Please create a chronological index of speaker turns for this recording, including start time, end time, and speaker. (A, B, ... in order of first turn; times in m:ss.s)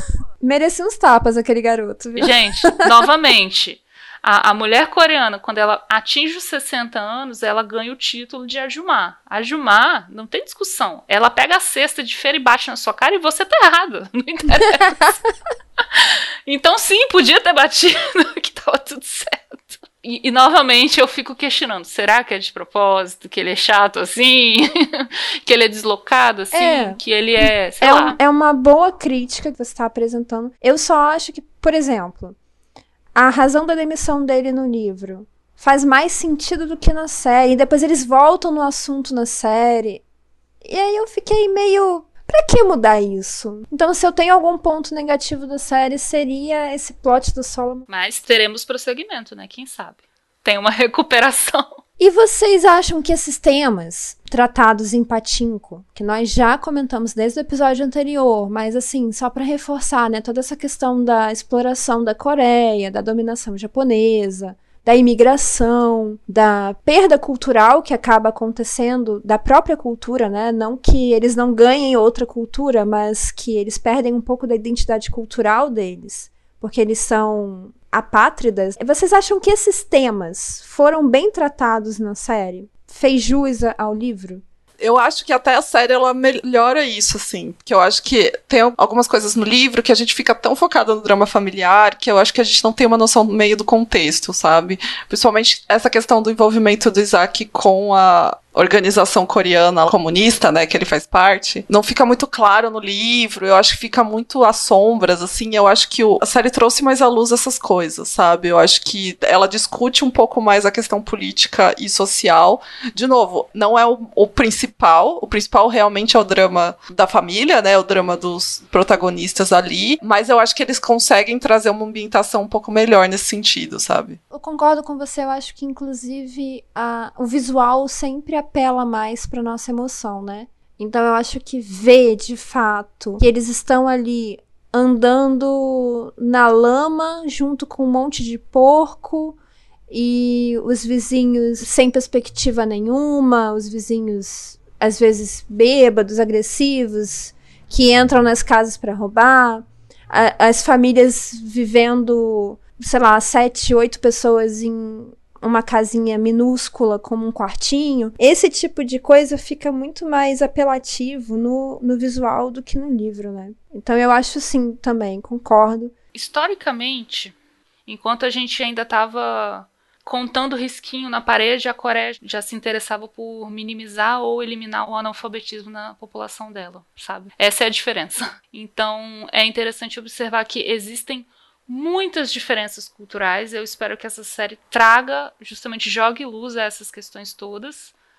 0:00.4-0:02.7 A
0:02.2-0:15.0 B
0:15.8-0:28.2 B
0:26.5-0:32.4 A
0:33.1-0:40.0 A
0:40.6-0:47.8 A
0:47.9-0:51.8 B
0:52.0-1:24.4 A
1:24.8-2:04.2 C
2:04.3-2:19.4 A
2:19.9-2:45.9 A
2:46.1-2:47.3 B
2:47.9-3:07.9 B